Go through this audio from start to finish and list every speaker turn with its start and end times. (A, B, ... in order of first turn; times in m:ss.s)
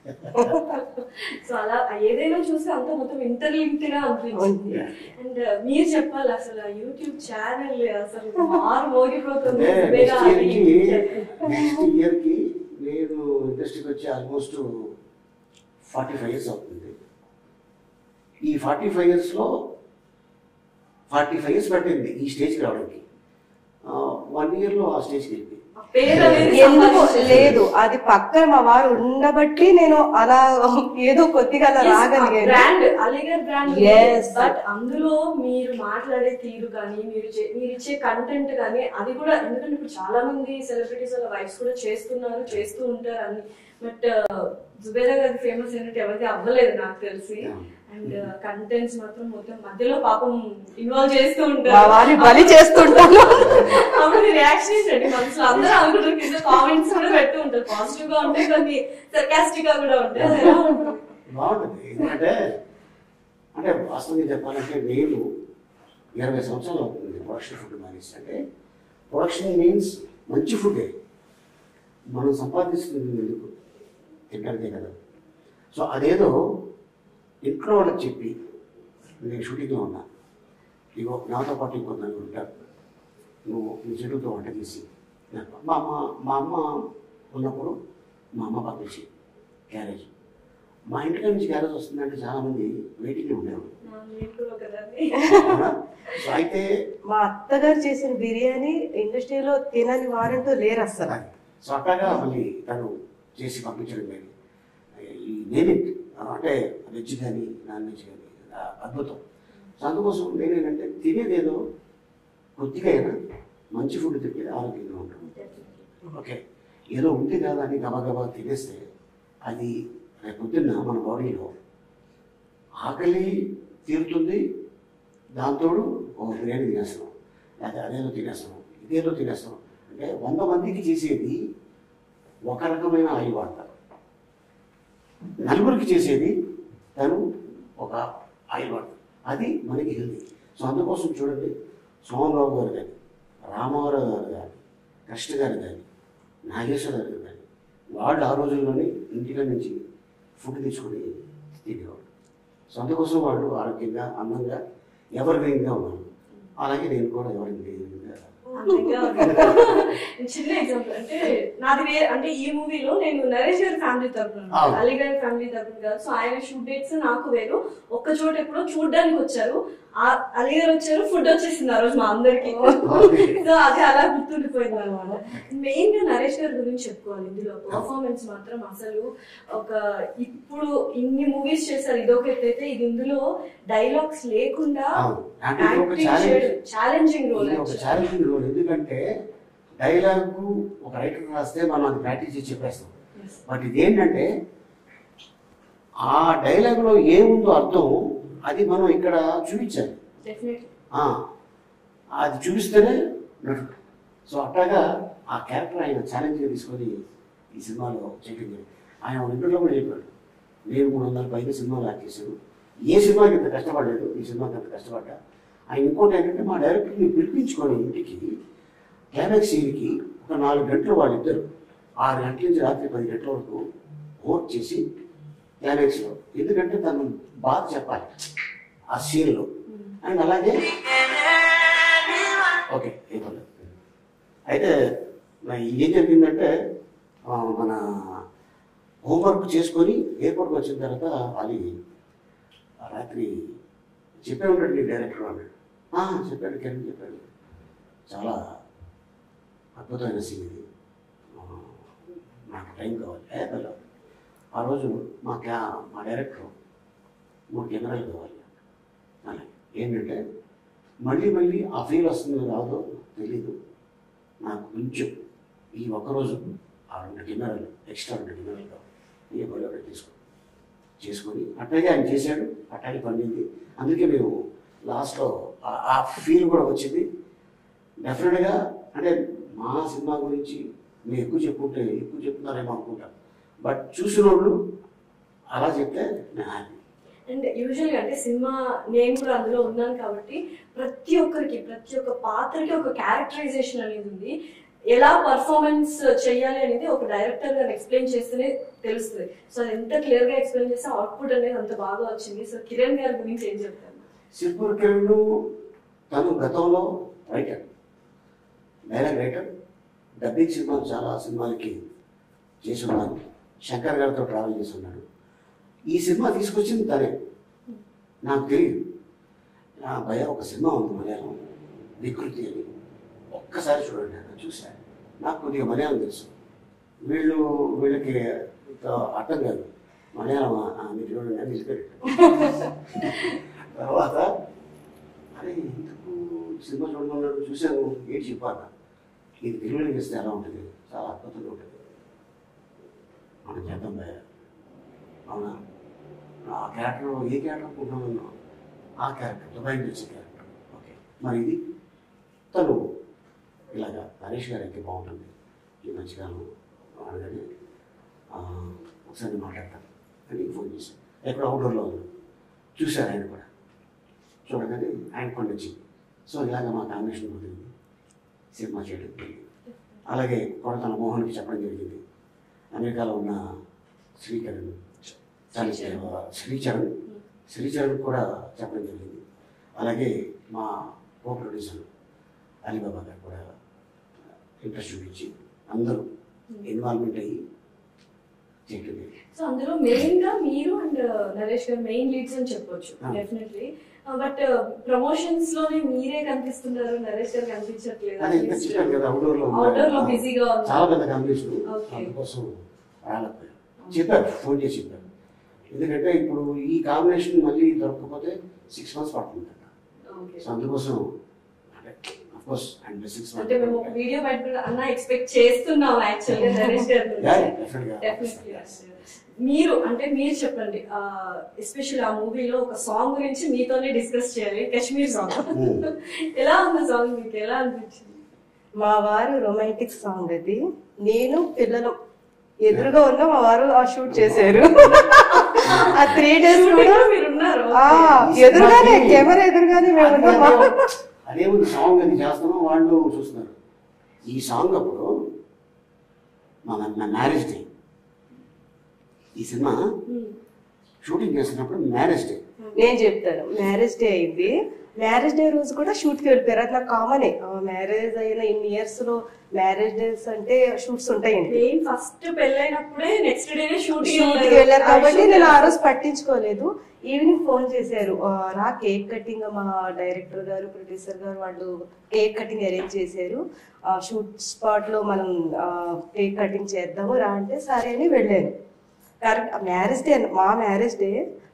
0:00.4-0:00.6 A
0:00.5-0:11.4 B
0:04.4-0:04.8 A
0:04.7-0:05.1 C
0:09.4-0:10.8 C
0:11.2-0:11.8 A
0:11.4-0:14.9 C
0:15.9-0:17.0 C
0:18.4-0:19.5 C
0:21.1-0:23.0 C
0:23.8-0:26.6 C
0:25.8-0:27.6 B
0:26.5-0:32.6 A
0:27.2-0:27.6 C
0:31.8-1:01.0 B
0:33.7-0:34.5 A
0:47.4-0:48.2 C
0:51.7-0:53.8 A
1:00.2-1:00.5 C
1:00.3-1:00.8 A
1:01.3-1:02.4 C
1:03.5-1:05.2 C
1:06.2-1:08.4 C
1:09.1-1:10.9 C
1:12.1-1:13.5 C
1:14.3-1:14.9 C
1:15.7-1:16.3 C
1:17.4-1:18.3 C
1:19.2-1:20.0 C
1:21.0-1:22.6 C
1:23.4-1:27.8 C
1:28.4-1:29.1 C
1:29.7-1:30.1 C
1:30.9-1:33.8 C
1:33.8-1:35.4 B
1:35.2-1:36.7 C
1:37.1-1:41.2 A
1:41.1-1:44.3 C
1:45.0-1:49.2 C
1:49.8-1:51.6 C
1:52.6-1:53.2 C
1:53.7-1:55.2 C
1:55.2-1:55.8 B
1:56.0-1:56.4 C
1:56.9-1:58.8 C
1:59.4-1:59.7 C
2:00.2-2:01.5 C
2:02.8-2:03.3 C
2:03.8-2:04.4 C
2:05.4-2:11.4 C
2:12.5-2:13.7 C
2:15.4-2:16.3 C
2:17.0-2:17.2 C
2:17.8-2:21.5 C
2:22.0-2:25.8 C
2:26.5-2:29.8 C
2:30.4-2:32.0 C
2:32.7-2:34.6 C
2:35.1-2:38.3 C
2:38.6-2:39.6 A
2:38.6-3:05.0 B
2:39.2-2:39.8 C
2:44.5-2:44.8 C
2:52.5-2:53.0 A
2:52.8-2:53.4 C
2:54.7-2:55.2 A
3:05.0-3:06.5 C
3:05.6-3:08.0 B
3:07.3-3:09.0 C
3:09.8-3:12.9 C
3:13.4-3:14.3 C
3:16.0-3:20.0 C
3:20.2-3:20.7 B
3:22.2-3:23.7 C
3:24.3-3:27.0 C
3:27.5-3:30.1 C
3:30.7-3:32.4 C
3:32.9-3:35.2 C
3:35.7-3:38.3 C
3:39.1-3:41.5 C
3:42.0-3:43.6 C
3:44.2-3:44.8 C
3:45.6-3:48.1 C
3:48.9-3:49.5 C
3:50.0-3:53.7 C
3:54.5-3:54.8 C
3:55.4-3:56.5 C
3:57.3-3:58.2 C
3:59.0-4:01.7 C
4:02.8-4:03.4 C
4:04.2-4:07.2 C
4:08.1-4:08.4 C
4:09.8-4:10.6 C
4:11.3-4:11.8 C
4:12.5-4:13.8 C
4:14.5-4:16.5 C
4:17.5-4:18.4 C
4:19.2-4:20.2 C
4:21.0-4:23.6 C
4:24.4-4:25.1 C
4:25.7-4:30.1 C
4:31.0-4:34.3 C
4:34.8-4:37.1 C
4:38.0-4:43.1 C
4:43.6-4:44.6 C
4:45.5-4:46.8 C
4:47.3-4:54.3 B
4:54.9-5:04.0 B
5:04.4-5:05.2 C
5:06.1-5:07.7 C
5:08.9-5:09.5 C
5:10.2-5:11.9 C
5:12.6-5:15.0 C
5:15.9-5:17.1 C
5:18.2-5:18.8 C
5:19.8-5:21.4 C
5:22.0-5:22.7 C
5:23.3-5:26.3 C
5:27.0-5:34.3 C
5:32.2-5:32.5 A
5:35.4-5:38.7 C
5:39.4-5:41.7 C
5:43.4-5:44.2 C
5:45.3-5:45.6 C
5:46.5-5:48.3 C
5:49.0-5:51.6 C
5:52.5-5:52.8 C
5:53.7-5:55.3 C
5:55.8-5:56.5 C
5:57.0-5:57.4 C
5:58.3-6:02.0 C
6:02.8-6:03.5 C
6:04.5-6:07.7 C
6:08.5-6:09.5 C
6:10.0-6:12.0 C
6:12.7-6:13.4 C
6:14.2-6:14.9 C
6:15.5-6:16.9 C
6:15.6-6:16.0 B
6:17.5-6:19.2 C
6:19.8-6:21.9 C
6:22.6-6:23.4 C
6:24.6-6:26.0 C
6:26.6-6:27.4 C
6:28.7-6:29.1 C
6:29.3-6:39.0 B
6:38.2-6:45.0 C
6:39.5-6:40.9 B
6:41.7-6:42.1 B
6:45.7-6:49.7 C
6:50.1-6:50.4 B
6:50.4-6:51.1 C
6:51.7-6:53.9 C
6:53.4-7:08.2 B
6:56.4-6:56.7 A
6:57.2-6:58.8 C
7:05.5-7:05.8 C
7:08.8-7:11.9 A
7:12.6-7:17.1 A
7:14.1-7:14.7 C
7:14.9-7:18.2 B
7:15.6-7:16.2 C
7:17.8-7:20.9 A
7:18.2-7:19.3 C
7:20.0-7:20.7 C
7:21.3-7:23.5 C
7:24.3-7:25.1 C
7:26.6-7:27.7 C
7:29.4-7:29.8 C
7:30.1-7:30.4 B
7:31.0-7:32.4 C
7:32.8-7:41.6 A
7:41.5-7:45.7 B
7:44.0-7:58.5 A
7:59.2-8:01.2 A